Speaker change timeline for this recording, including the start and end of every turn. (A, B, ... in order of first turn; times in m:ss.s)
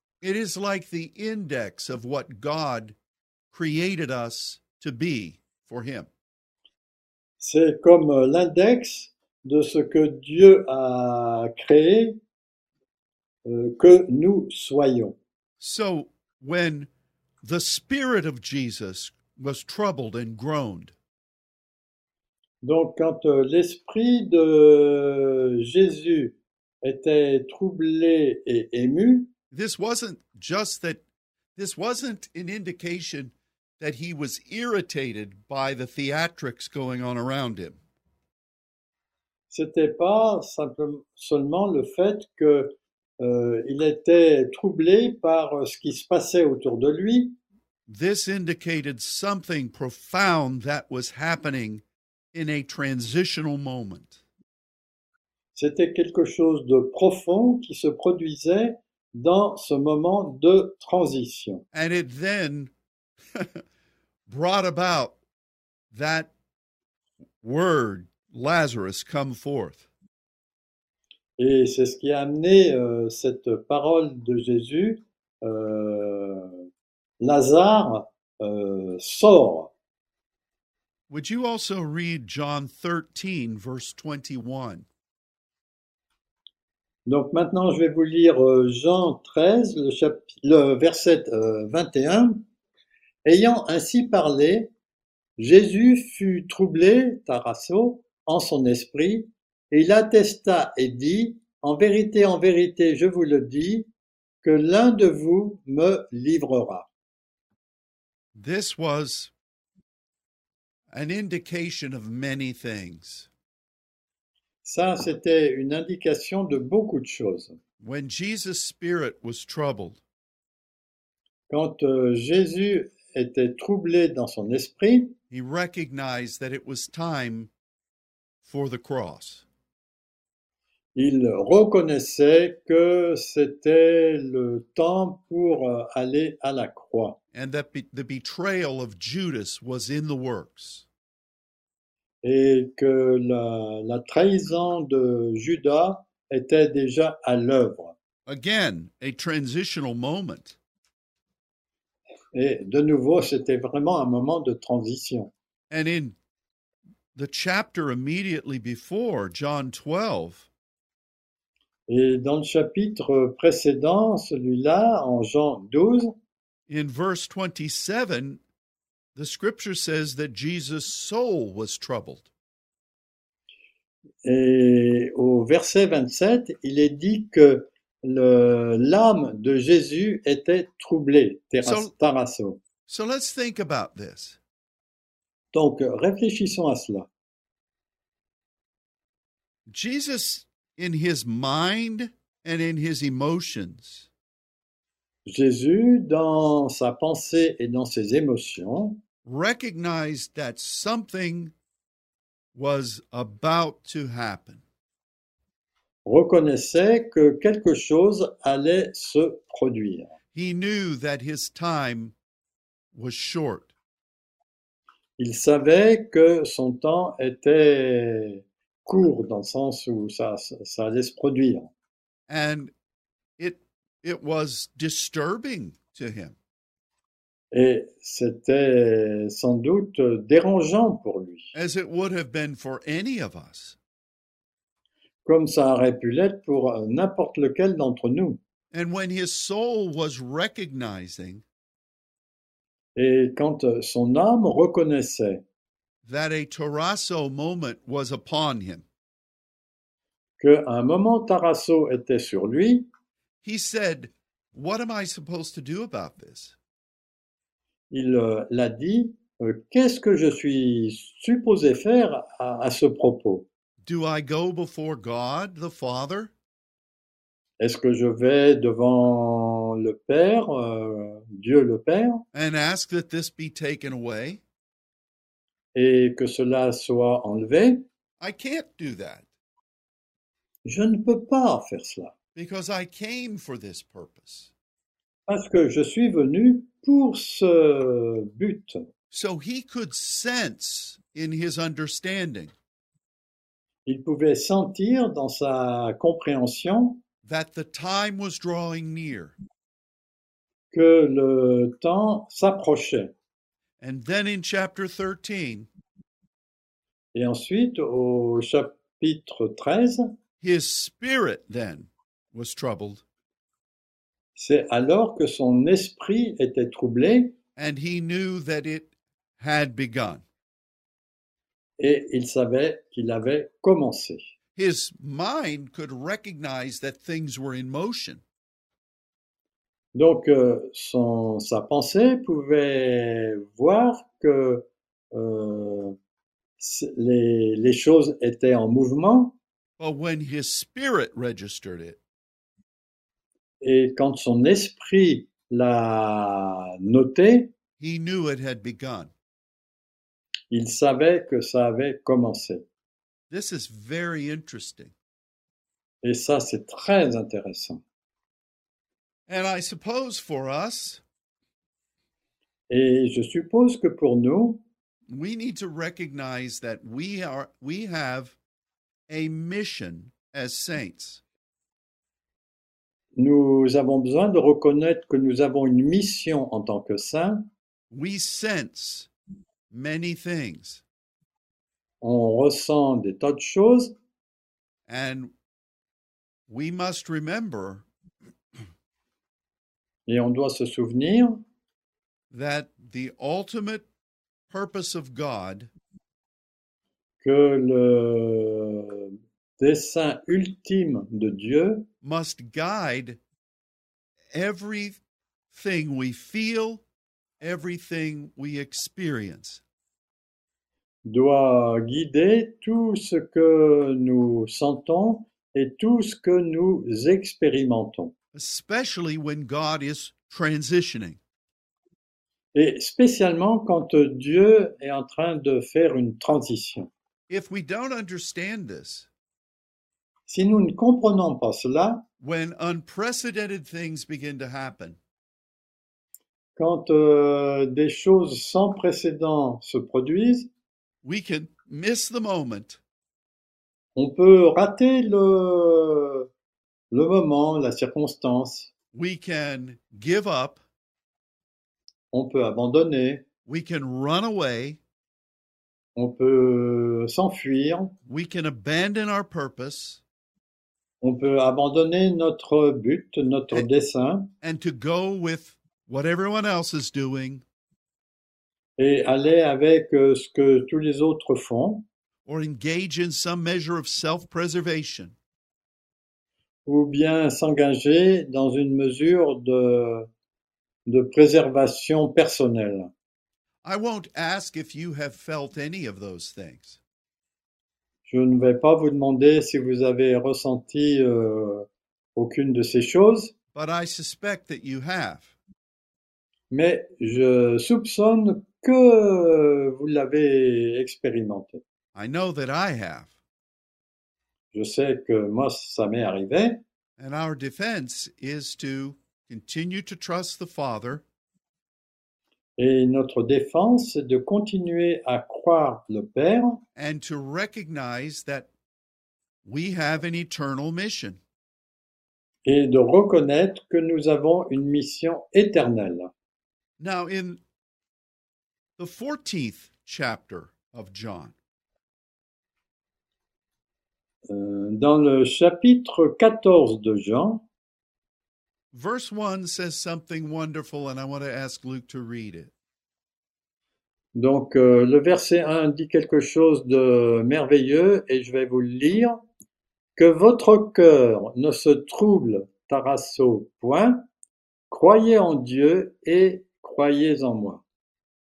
0:00.2-0:03.0 A
0:03.5-0:06.1 A
0:07.4-0:12.2 B
0:13.5-0:15.2 B
0:15.6-0:16.9 A
0:17.4-0:20.9 A
0:22.6-0:29.3 B
0:29.5-0:31.0 A
0:31.6-0:37.8 A
0:39.5-0:47.4 B
0:47.9-0:51.8 A
0:52.3-0:54.2 A
0:55.6-1:01.6 B
1:01.7-1:02.7 A
1:03.4-1:03.6 A
1:04.3-1:05.2 A
1:05.9-1:06.3 A
1:07.4-1:09.9 A
1:11.4-1:16.6 B
1:17.2-1:19.7 B
1:21.1-1:24.9 A
1:27.1-1:32.4 B
1:33.2-1:34.7 B
1:35.4-1:43.9 B
1:44.4-1:46.9 B
1:48.4-1:49.3 A
1:50.9-1:53.3 A
1:54.6-1:57.6 B
1:57.8-2:00.0 A
2:01.5-2:05.1 B
2:05.3-2:07.5 A
2:08.4-2:09.4 A
2:11.0-2:17.2 B
2:17.3-2:20.9 A
2:22.2-2:28.0 B
2:28.3-2:30.6 A
2:32.3-2:35.3 B
2:35.7-2:36.2 A
2:37.2-2:40.5 A
2:41.9-2:46.1 B
2:46.7-2:48.4 A
2:49.2-2:52.3 A
2:54.2-3:02.6 B
3:01.6-3:01.9 A
3:02.9-3:04.4 A
3:05.5-3:07.1 B
3:09.7-3:14.1 A
3:15.3-3:19.0 B
3:19.2-3:21.5 A
3:22.6-3:24.6 A
3:26.0-3:30.1 B
3:30.3-3:32.2 A
3:32.9-3:33.7 A
3:35.2-3:41.7 B
3:42.3-3:42.7 A
3:43.4-3:46.4 A
3:47.5-3:51.5 B
3:51.5-3:53.8 A
3:55.2-3:58.4 B
3:58.7-4:01.4 A
4:03.0-4:05.4 B
4:06.0-4:08.8 A
4:10.4-4:12.9 B
4:13.4-4:16.6 A
4:17.9-4:23.5 B
4:23.8-4:26.3 A
4:27.6-4:32.2 B
4:32.3-4:34.4 A
4:35.8-4:37.8 B
4:38.2-4:39.3 A
4:40.6-4:42.1 B
4:42.4-4:44.5 A
4:45.3-4:48.9 B
4:49.1-4:52.5 A
4:53.9-4:57.0 B
4:57.2-4:59.4 A
5:00.7-5:03.1 B
5:03.8-5:05.7 A
5:07.1-5:10.1 B
5:10.4-5:13.0 A
5:14.4-5:17.4 B
5:17.6-5:20.2 A
5:21.8-5:24.2 B
5:24.6-5:28.2 A
5:30.0-5:36.0 B
5:36.6-5:39.4 B
5:39.8-5:42.0 A
5:43.6-5:47.5 B
5:47.8-5:49.1 A
5:50.5-5:52.6 B
5:53.3-5:54.9 A
5:56.0-5:57.8 B
5:59.3-6:01.0 A
6:02.7-6:04.6 B
6:05.1-6:08.4 A
6:09.1-6:11.2 A
6:13.2-6:17.5 B
6:17.9-6:19.1 A
6:19.7-6:20.8 A
6:22.0-6:23.9 B
6:24.9-6:25.3 A
6:26.5-6:27.8 A
6:30.1-6:31.4 B
6:32.3-6:33.9 A
6:34.5-6:35.7 A
6:37.2-6:41.9 B
6:42.0-6:43.2 A
6:44.3-6:45.0 A
6:45.5-6:46.8 A
6:47.4-6:49.6 A
6:51.0-6:58.1 B
6:58.3-7:01.2 A
7:02.5-7:06.9 B
7:07.3-7:09.1 A
7:10.3-7:12.0 B
7:12.2-7:15.0 A
7:16.6-7:20.5 B
7:21.0-7:22.8 A
7:24.0-7:26.3 B
7:26.9-7:28.7 B
7:28.9-7:30.6 A
7:32.1-7:33.2 B
7:33.5-7:34.8 A
7:36.0-7:37.9 B
7:38.1-7:40.0 A
7:41.0-7:44.3 B
7:44.4-7:47.4 A
7:48.8-7:51.8 B
7:52.3-7:55.2 A
7:56.7-8:00.1 B
8:00.9-8:02.9 B
8:03.6-8:06.8 A
8:08.1-8:13.3 B
8:13.6-8:15.3 A
8:16.5-8:21.6 B
8:22.0-8:23.2 A
8:24.5-8:26.6 B
8:27.0-8:31.0 A
8:32.6-8:36.6 B
8:36.8-8:38.5 A
8:39.4-8:41.2 A
8:42.4-8:46.1 B
8:46.8-8:47.4 A
8:48.8-8:51.4 A
8:54.3-8:57.4 B
8:58.7-9:02.5 A
9:04.2-9:09.2 B
9:10.0-9:14.1 B
9:14.7-9:17.6 B